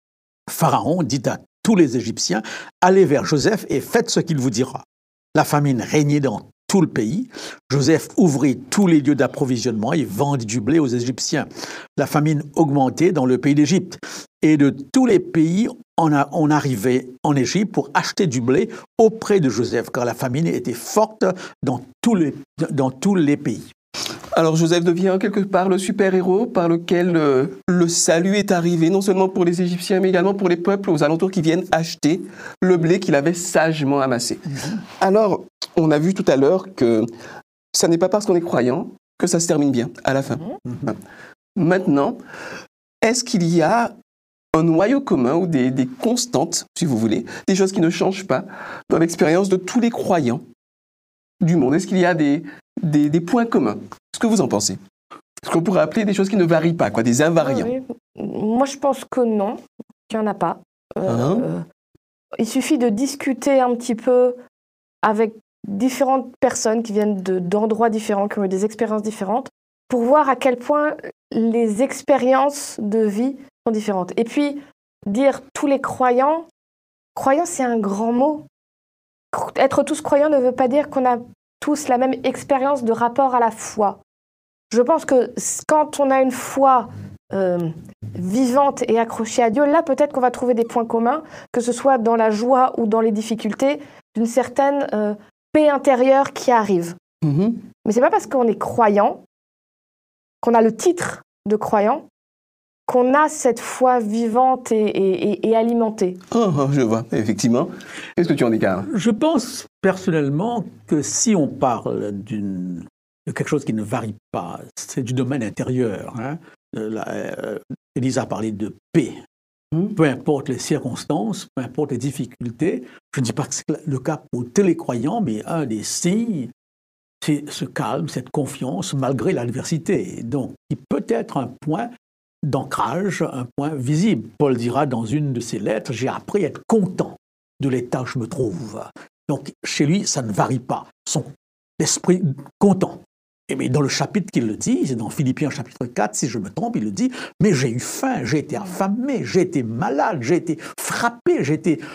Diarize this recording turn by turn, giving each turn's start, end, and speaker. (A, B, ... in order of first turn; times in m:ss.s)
0:00.5-0:23.7 A
0:24.3-0:34.4 B
0:34.5-0:34.8 A
0:35.0-0:37.1 B
0:37.7-0:41.0 B
0:40.7-0:40.9 A
0:41.6-0:42.2 B
0:43.0-0:43.9 B
0:44.5-0:50.4 B
0:51.4-0:54.8 B
0:55.4-0:57.7 B
0:57.4-1:01.6 C
1:01.1-1:01.5 B
1:02.4-1:04.4 C
1:05.0-1:16.5 C
1:17.2-1:18.4 C
1:19.3-1:24.0 C
1:24.7-1:37.0 C
1:37.2-1:37.6 B
1:37.8-1:39.2 C
1:40.4-1:42.0 C
1:42.9-1:46.2 C
1:46.3-1:48.9 B
1:48.9-1:59.2 A
1:59.8-2:06.5 A
2:07.2-2:11.9 A
2:12.4-2:21.3 A
2:21.8-2:31.8 A